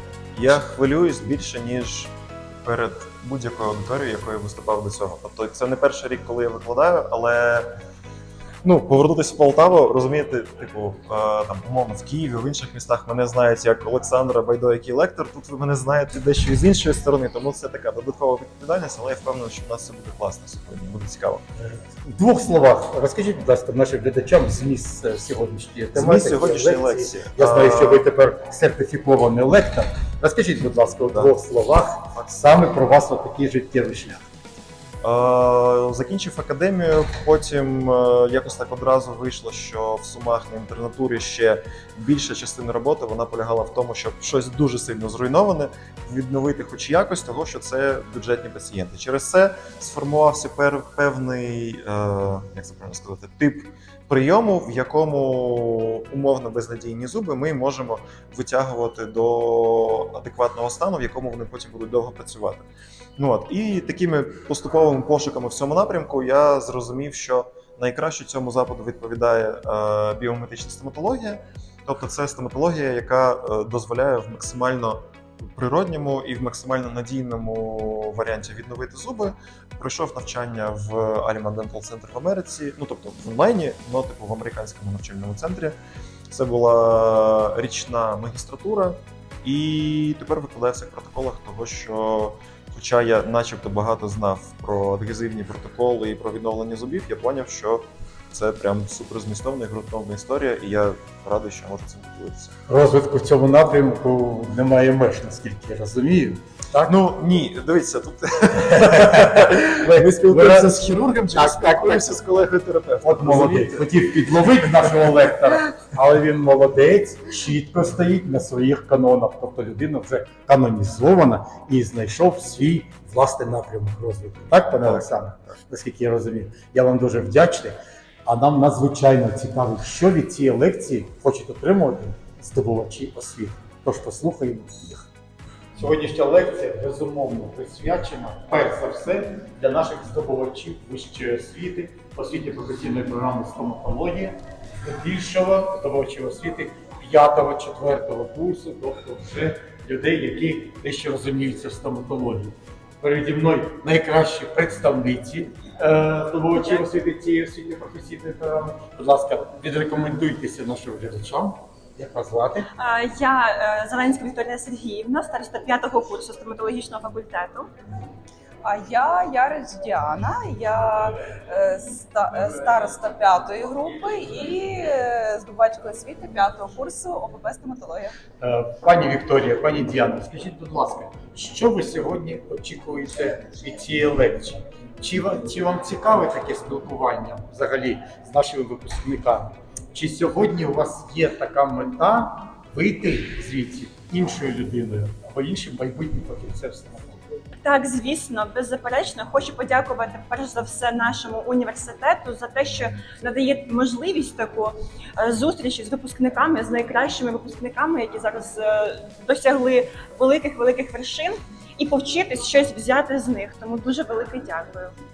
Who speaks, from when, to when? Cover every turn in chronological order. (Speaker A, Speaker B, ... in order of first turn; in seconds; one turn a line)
Speaker A: 0.3-7.7
Speaker A: 8.6-21.4
Speaker B: 21.6-34.3
Speaker A: 25.9-28.1
Speaker A: 32.1-32.5
Speaker A: 35.0-85.8
Speaker A: 86.3-102.5
Speaker B: 102.7-106.9
Speaker A: 106.9-114.1
Speaker B: 109.0-112.2
Speaker B: 113.0-135.0
Speaker B: 135.7-162.7
Speaker C: 162.8-167.7
Speaker D: 168.6-178.2
Speaker B: 178.4-197.2
Speaker C: 197.6-214.9